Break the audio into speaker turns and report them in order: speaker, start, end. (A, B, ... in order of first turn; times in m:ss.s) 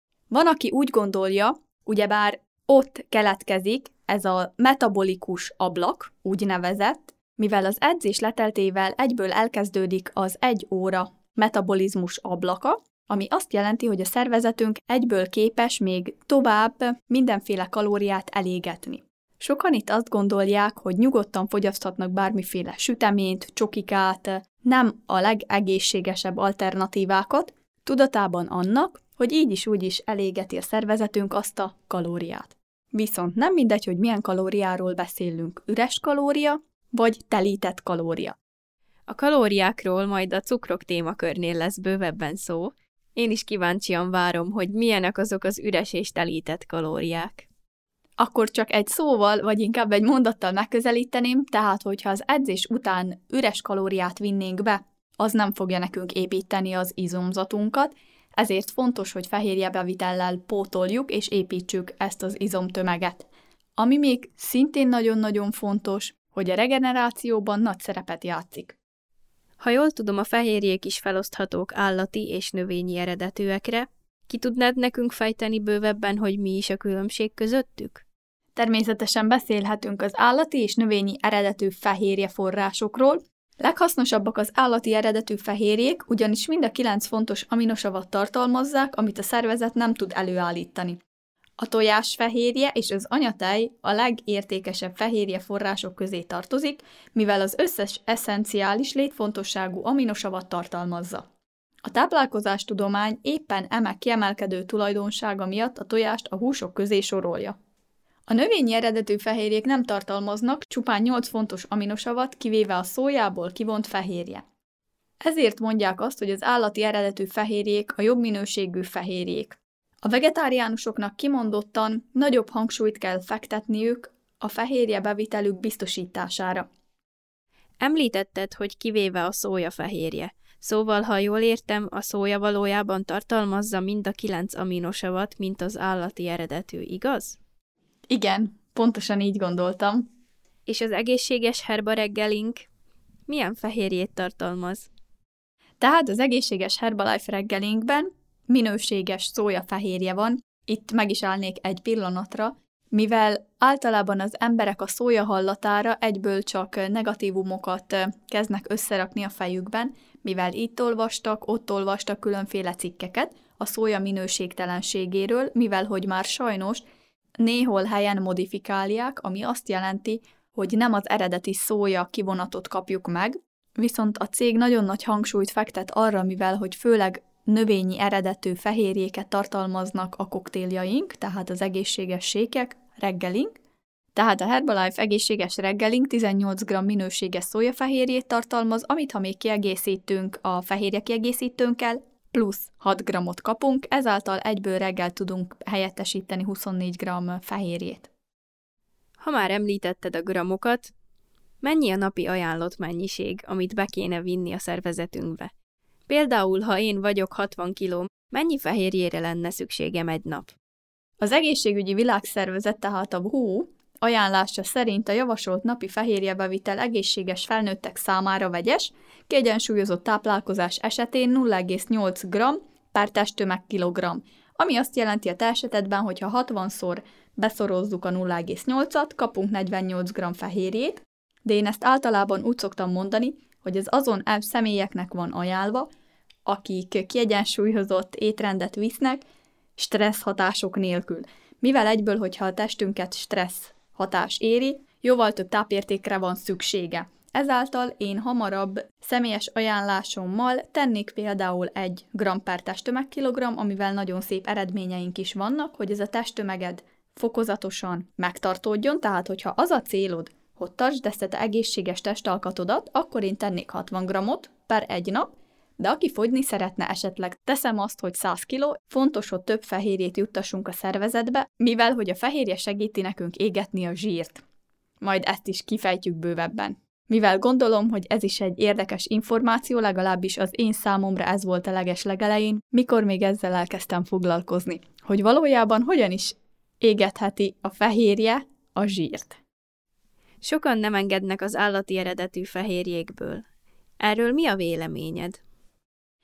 0:00.3-0:38.4 A
0:39.1-0:47.4 B
0:48.2-1:08.8 A
1:09.6-1:18.0 B
1:18.6-1:31.0 A
1:31.6-1:41.2 A
1:41.8-1:47.6 A
1:48.3-1:54.4 A
1:55.2-2:06.7 A
2:07.8-2:17.4 B
2:18.1-2:20.0 A
2:20.6-2:22.6 B
2:23.3-2:24.9 B
2:25.8-2:46.8 A
2:47.4-3:03.6 A
3:04.1-3:18.1 A
3:19.2-3:20.9 B
3:21.6-3:25.5 B
3:26.1-3:30.6 B
3:31.2-3:55.9 A
3:56.4-3:59.2 A
3:59.8-4:34.4 A
4:35.0-4:49.4 A
4:50.4-4:53.4 B
4:54.0-4:55.4 B